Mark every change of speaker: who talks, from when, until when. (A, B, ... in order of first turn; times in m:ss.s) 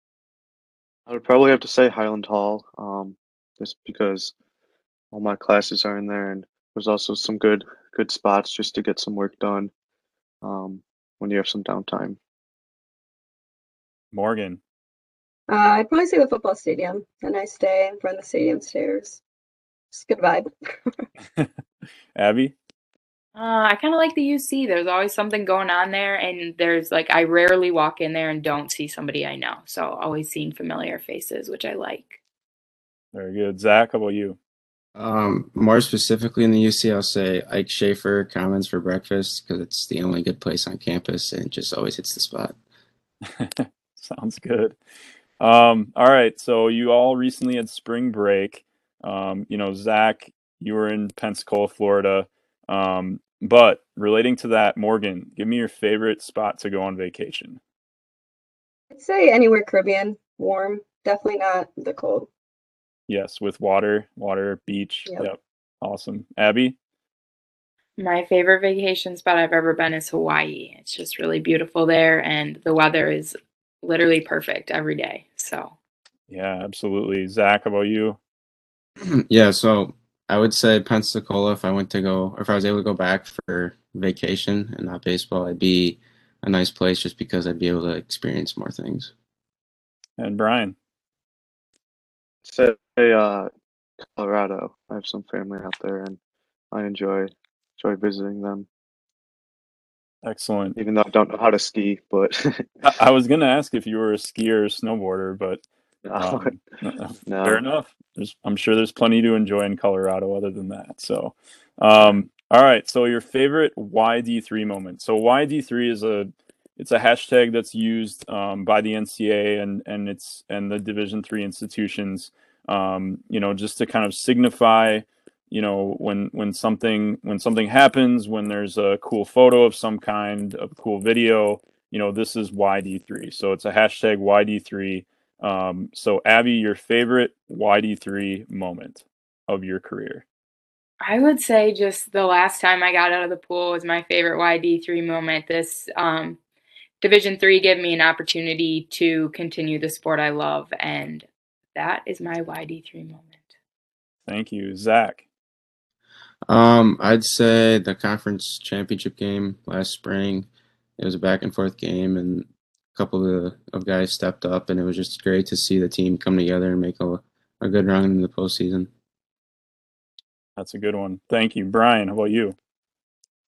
0:01.1-0:04.3 A
0:05.1-0:09.7 A
0:10.4-0:12.2 A
0:14.1-0:14.6 B
0:15.5-0:19.2 C
0:19.9-0:21.0 C
0:22.1-0:22.5 B
0:23.4-0:32.2 D
0:33.1-0:34.4 B
0:35.0-0:42.5 E
0:43.3-0:44.8 B
0:45.4-0:57.6 B
0:58.9-1:02.3 C
1:03.1-1:06.8 B
1:08.0-1:15.7 D
1:16.3-1:18.2 B
1:19.0-1:29.1 E
1:30.2-1:30.7 B
1:32.4-1:33.5 A
1:34.2-1:36.2 A
1:36.7-1:38.7 A
1:40.2-1:40.8 B
1:40.8-1:42.8 A
1:42.8-1:45.6 B
1:46.0-1:46.5 A
1:46.2-2:20.2 B
1:47.2-1:47.6 A
2:21.0-2:26.4 D
2:27.0-2:33.5 D
2:34.2-2:35.2 B
2:36.5-2:48.9 E
2:50.6-2:52.6 B